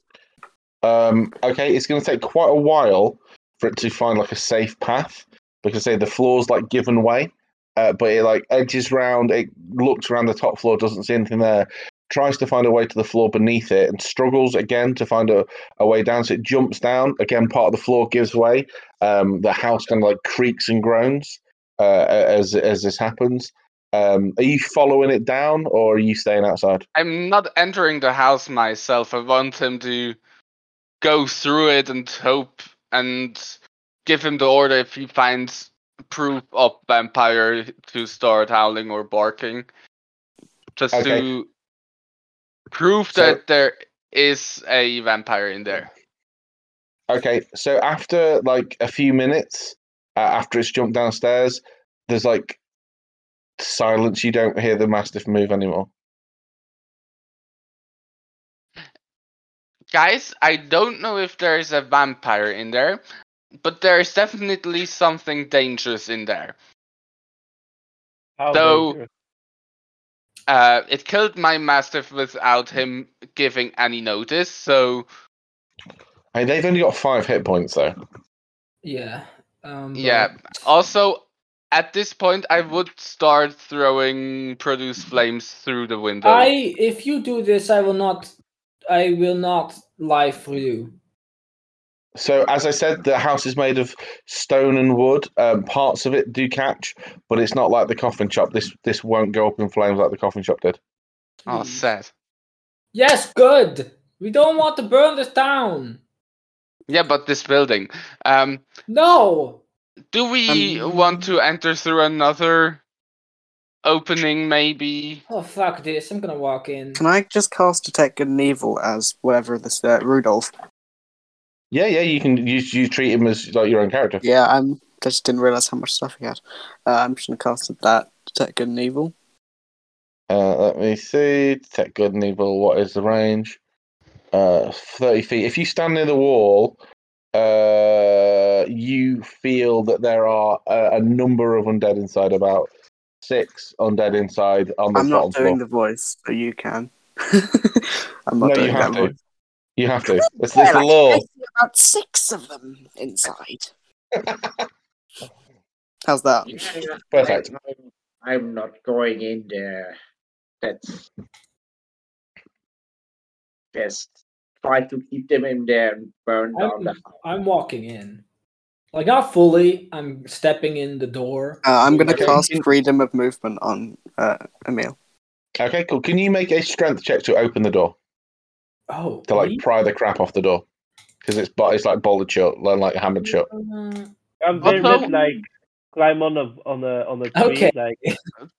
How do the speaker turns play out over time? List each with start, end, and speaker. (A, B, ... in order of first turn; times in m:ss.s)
0:00.8-0:26.8 A
0:27.0-0:30.2 B
0:31.0-0:39.7 B
0:40.8-0:41.5 B
0:40.9-0:41.3 A
0:42.7-0:45.9 B
0:43.1-0:43.4 A
0:47.1-0:52.6 A
0:53.6-0:55.9 A
0:59.9-1:03.0 B
1:03.6-1:06.6 B
1:08.4-1:09.1 C
1:08.5-1:09.0 B
1:10.5-1:15.1 B
1:16.3-1:18.0 A
1:18.8-1:20.4 D
1:20.0-1:26.5 B
1:26.2-1:28.3 D
1:28.9-1:30.9 D
1:32.2-1:40.8 A
1:41.4-1:41.8 D
1:41.5-1:42.1 B
1:42.9-1:46.0 D
1:46.9-1:48.6 B
1:48.9-1:49.6 D
1:50.1-1:52.8 B
1:50.5-1:51.0 E
1:53.8-1:55.2 B
1:55.3-1:57.0 D
1:57.0-2:00.5 E
2:01.7-2:04.2 A
2:04.2-2:09.1 E
2:10.3-2:13.6 A
2:14.3-2:16.8 A
2:17.3-2:22.7 A
2:23.2-2:25.6 A
2:25.0-2:29.2 E
2:28.4-2:29.1 A
2:29.8-2:31.2 A
2:30.0-2:33.7 E
2:34.2-2:34.6 A
2:36.1-2:36.6 E
2:36.5-2:40.0 F
2:37.1-2:37.5 A
2:40.6-2:41.1 F
2:43.8-2:47.0 F
2:46.6-2:48.2 D
2:48.9-2:52.6 D
2:51.6-2:55.0 E
2:52.1-2:52.4 A
2:55.6-2:58.0 A
2:58.9-2:59.6 D
2:59.3-3:00.6 A
3:01.2-3:03.5 A
3:03.2-3:05.4 D
3:04.4-3:08.0 C
3:04.6-3:05.1 B
3:07.3-3:08.1 D